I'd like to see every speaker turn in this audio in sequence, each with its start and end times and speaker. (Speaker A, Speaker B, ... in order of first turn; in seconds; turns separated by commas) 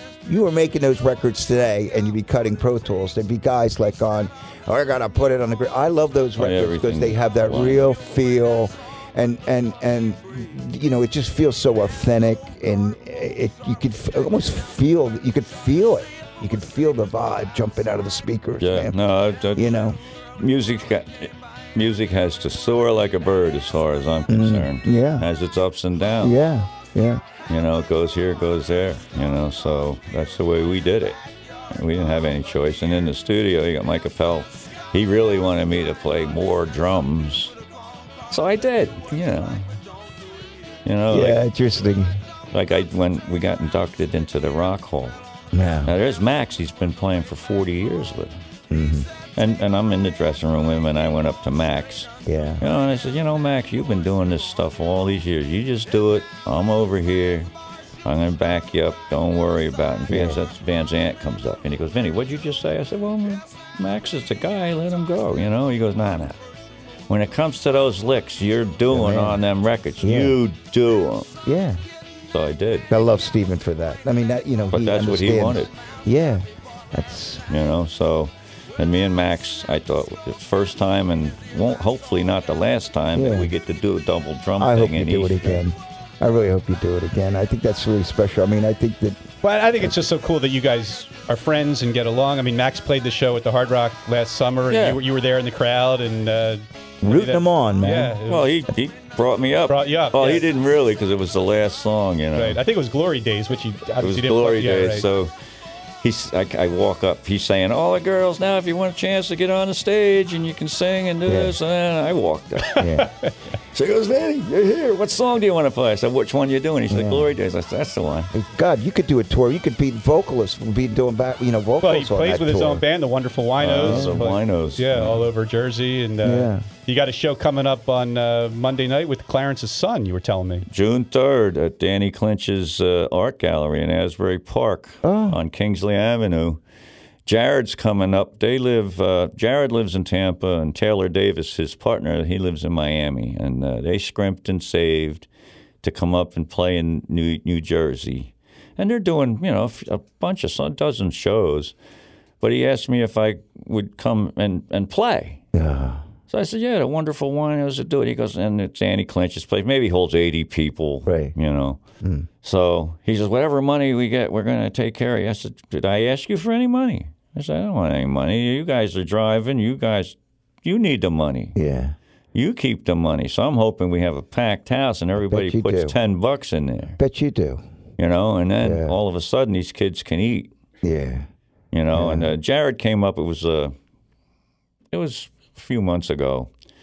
Speaker A: 0.2-18.9, Speaker B: 6.4-7.8, Speaker B: 18.6-19.7, Speaker A: 19.6-20.0, Speaker B: 20.4-26.4, Speaker A: 24.3-25.3, Speaker A: 26.2-27.2, Speaker B: 27.5-31.2, Speaker B: 31.7-37.5, Speaker B: 38.3-39.8, Speaker B: 40.9-41.4, Speaker A: 41.1-42.2, Speaker B: 42.5-45.2, Speaker A: 45.5-46.0, Speaker B: 45.9-48.4, Speaker A: 48.7-49.1, Speaker B: 49.4-57.5, Speaker A: 52.3-52.6, Speaker B: 58.0-66.4, Speaker A: 60.1-60.4, Speaker B: 67.1-71.3, Speaker A: 68.9-69.4, Speaker A: 70.0-70.4, Speaker A: 71.4-71.8, Speaker B: 72.3-72.9, Speaker A: 72.9-77.5, Speaker B: 74.7-75.7, Speaker B: 77.5-85.6, Speaker A: 83.1-83.5, Speaker A: 84.6-89.2, Speaker C: 89.4-98.5, Speaker B: 94.7-95.0, Speaker A: 97.0-98.2, Speaker B: 98.3-102.6, Speaker C: 99.7-100.5, Speaker C: 102.3-105.1, Speaker B: 104.0-105.3, Speaker B: 106.0-112.9, Speaker A: 111.3-111.6, Speaker A: 112.8-113.1, Speaker C: 113.0-113.3, Speaker B: 113.7-118.3, Speaker A: 116.9-117.3, Speaker A: 118.3-122.8, Speaker C: 121.8-130.7, Speaker B: 123.6-125.3, Speaker A: 123.8-124.2, Speaker A: 126.2-126.7, Speaker B: 130.7-136.6, Speaker A: 135.0-135.4, Speaker B: 137.3-145.3, Speaker B: 145.8-151.7, Speaker B: 152.4-155.4, Speaker A: 155.5-156.1, Speaker B: 156.3-161.8, Speaker A: 161.1-161.3, Speaker A: 162.0-162.3, Speaker B: 162.4-171.6, Speaker A: 171.6-172.0, Speaker B: 172.3-177.0, Speaker A: 175.2-176.0, Speaker A: 177.0-177.6, Speaker B: 178.0-180.5, Speaker A: 178.6-178.9, Speaker A: 180.8-181.3, Speaker B: 181.7-183.7, Speaker A: 181.9-182.3, Speaker B: 184.9-186.5